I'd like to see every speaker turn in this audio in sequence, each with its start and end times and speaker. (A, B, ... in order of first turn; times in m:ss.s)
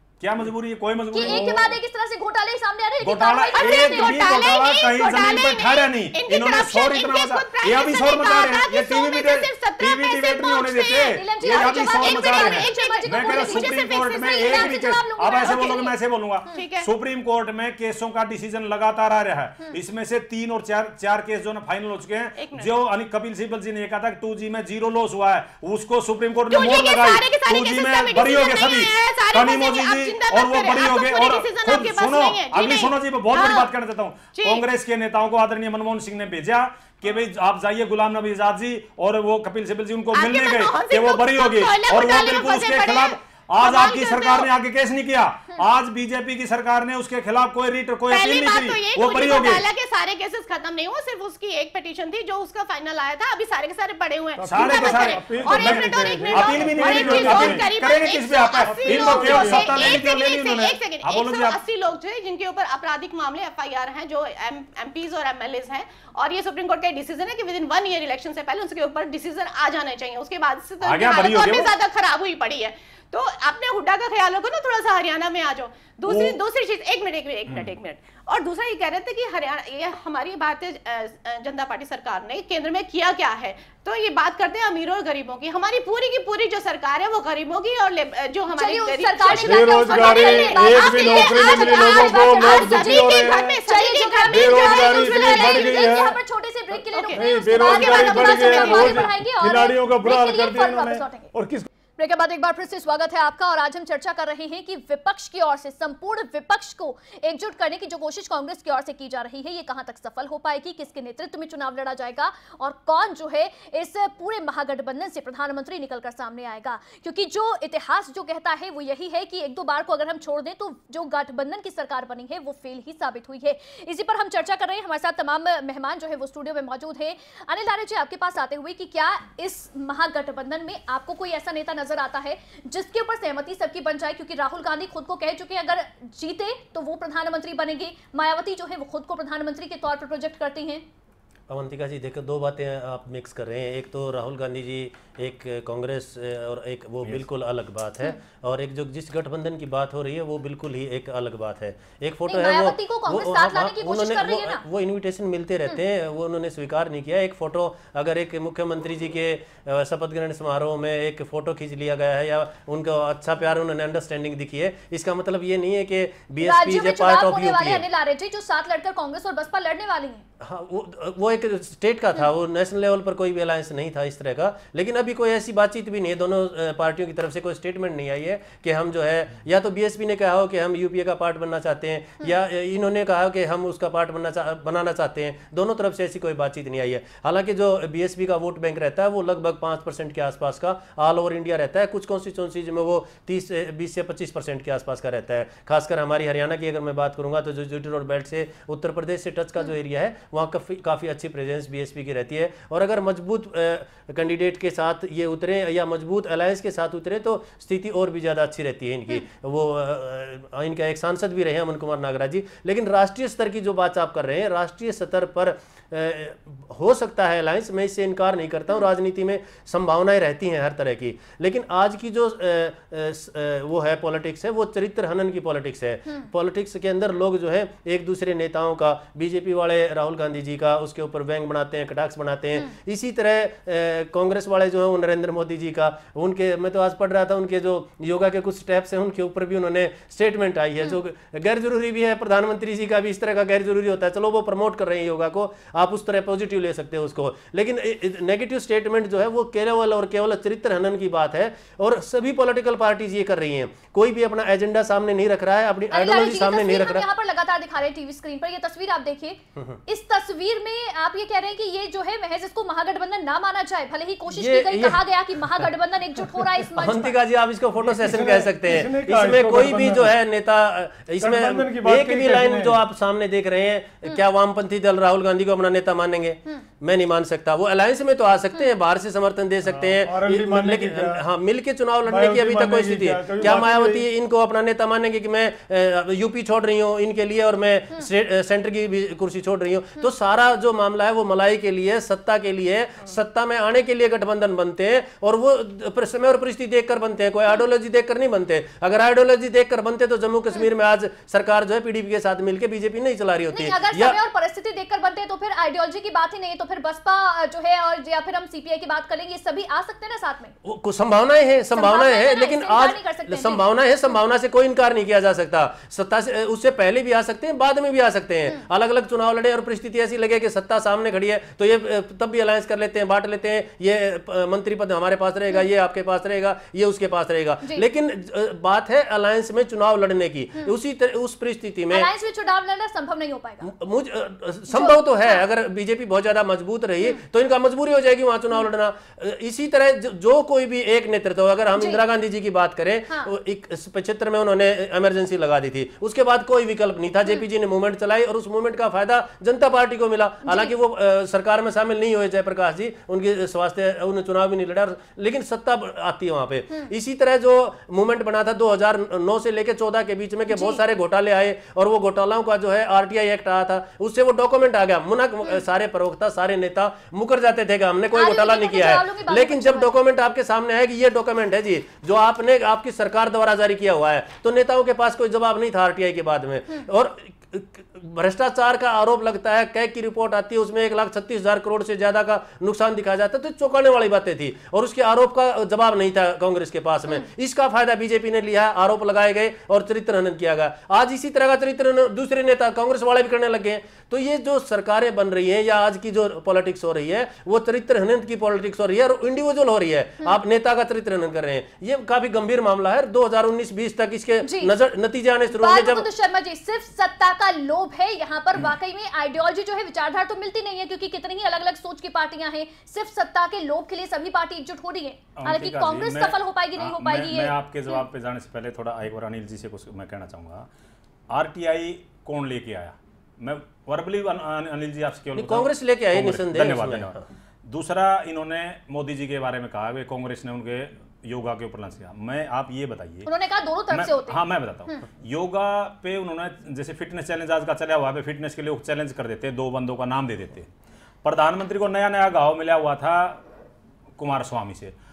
0:00.2-0:01.8 A
0:01.1-0:04.2 B
0:03.0-0:49.6 A
0:03.5-0:14.7 C
0:11.1-0:16.0 B
0:16.5-0:16.9 C
0:22.4-0:22.7 C
0:26.5-0:33.7 C
0:34.4-0:34.6 C
0:40.1-0:44.5 C
0:48.1-1:35.8 C
0:54.4-0:57.7 D
0:54.5-1:01.6 A
0:58.6-1:00.0 D
1:10.8-1:11.7 A
1:16.0-1:16.4 A
1:28.5-1:41.3 B
1:29.3-1:33.6 D
1:34.2-1:36.2 D
1:36.9-1:39.1 C
1:37.1-1:41.7 D
1:42.0-2:20.8 B
2:21.5-2:47.8 E
2:32.2-2:34.6 B
2:46.4-2:50.2 B
2:50.4-4:17.0 E
4:15.9-4:27.2 B
4:24.3-4:25.0 E
4:26.7-5:04.2 E
4:27.8-4:30.1 D
4:31.2-4:32.8 D
4:39.6-4:41.2 D
4:42.0-4:44.0 D
5:03.5-5:10.5 B
5:10.6-5:32.1 E
5:11.7-5:13.6 B
5:31.9-5:33.7 B
5:33.6-6:46.1 E
5:34.7-5:35.4 B
5:50.4-5:50.7 B
6:00.5-6:00.8 B
6:08.1-6:09.9 B
6:44.4-6:44.7 B
6:45.5-6:58.0 B
6:55.4-7:00.7 A
7:01.3-7:13.3 A
7:05.3-7:07.2 E
7:13.2-7:15.0 B
7:13.9-7:20.7 A
7:21.2-7:23.4 A
7:24.2-7:24.9 A